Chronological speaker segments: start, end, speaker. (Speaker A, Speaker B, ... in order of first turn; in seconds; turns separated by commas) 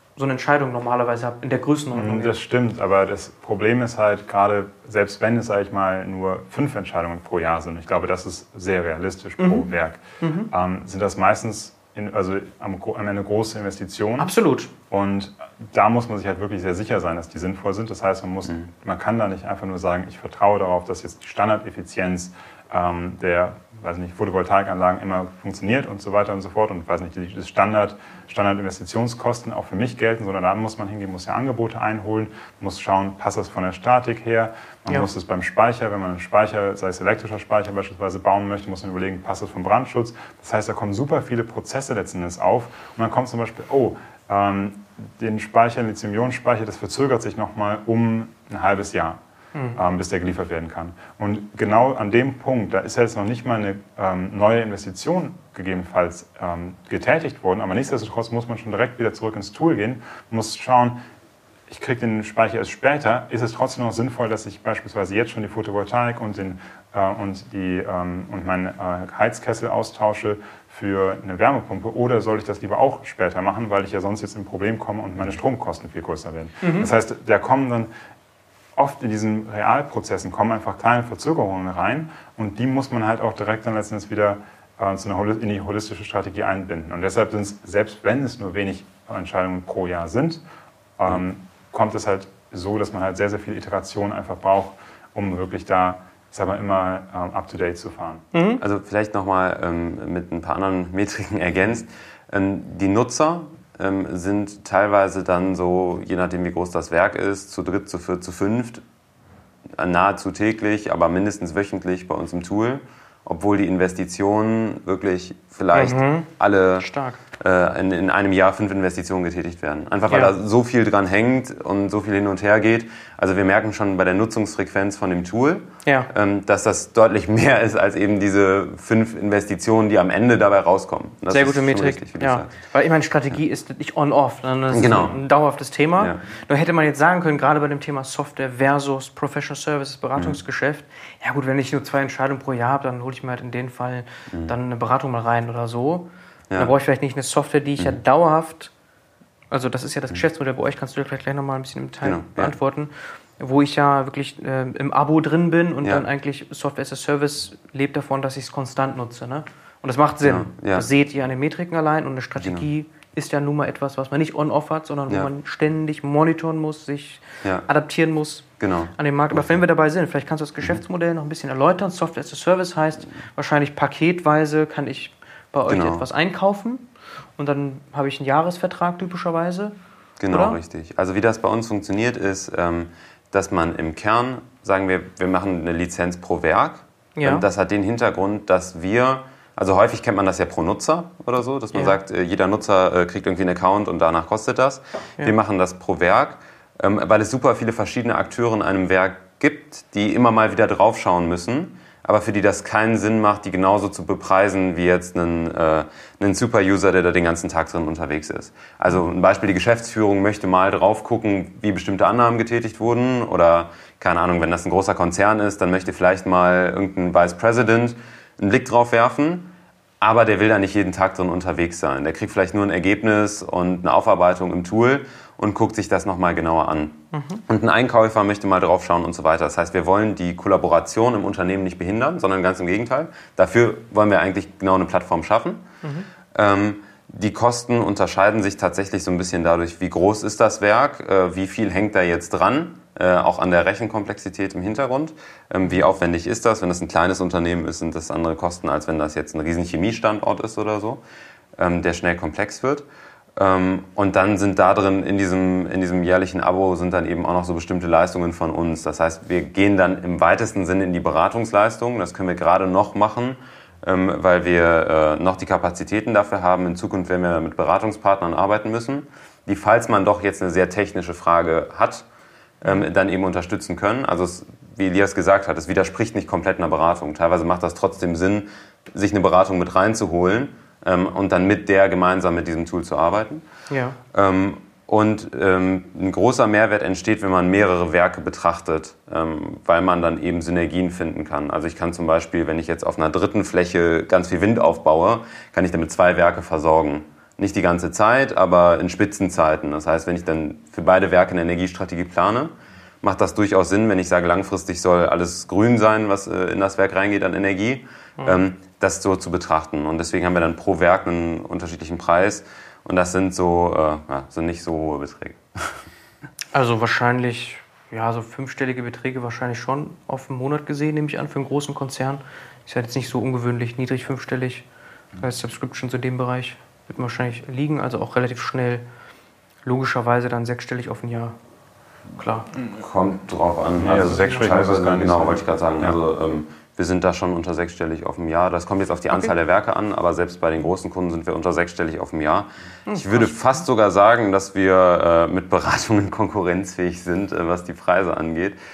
Speaker A: 0.1-2.3, Speaker B: 1.9-14.3, Speaker A: 9.4-9.7, Speaker A: 10.2-10.5, Speaker A: 14.2-14.7, Speaker B: 14.9-49.2, Speaker A: 49.5-49.8, Speaker B: 49.7-61.0, Speaker B: 61.7-77.9, Speaker A: 76.6-76.9, Speaker B: 78.7-90.4, Speaker B: 91.0-98.2, Speaker A: 98.3-98.6, Speaker C: 98.6-108.8, Speaker C: 109.7-116.9, Speaker A: 115.7-117.2, Speaker C: 117.4-132.5, Speaker A: 120.1-120.3, Speaker A: 131.3-148.7, Speaker C: 134.7-135.2, Speaker A: 149.5-179.7, Speaker C: 152.0-152.5, Speaker C: 160.2-160.9, Speaker C: 162.4-162.7, Speaker C: 168.6-169.6, Speaker C: 175.7-176.1, Speaker C: 180.2-235.6, Speaker A: 180.3-180.6, Speaker A: 187.2-187.4, Speaker A: 227.1-227.4, Speaker A: 235.8-236.1, Speaker C: 236.3-251.0, Speaker C: 251.6-252.8, Speaker C: 253.4-272.1, Speaker C: 272.6-283.4, Speaker A: 283.7-284.0, Speaker C: 284.1-315.8, Speaker A: 316.5-324.6, Speaker A: 325.2-328.8, Speaker A: 329.6-331.4, Speaker A: 332.1-332.5, Speaker C: 332.6-348.6, Speaker B: 333.8-336.0, Speaker A: 334.1-334.4, Speaker A: 342.9-343.6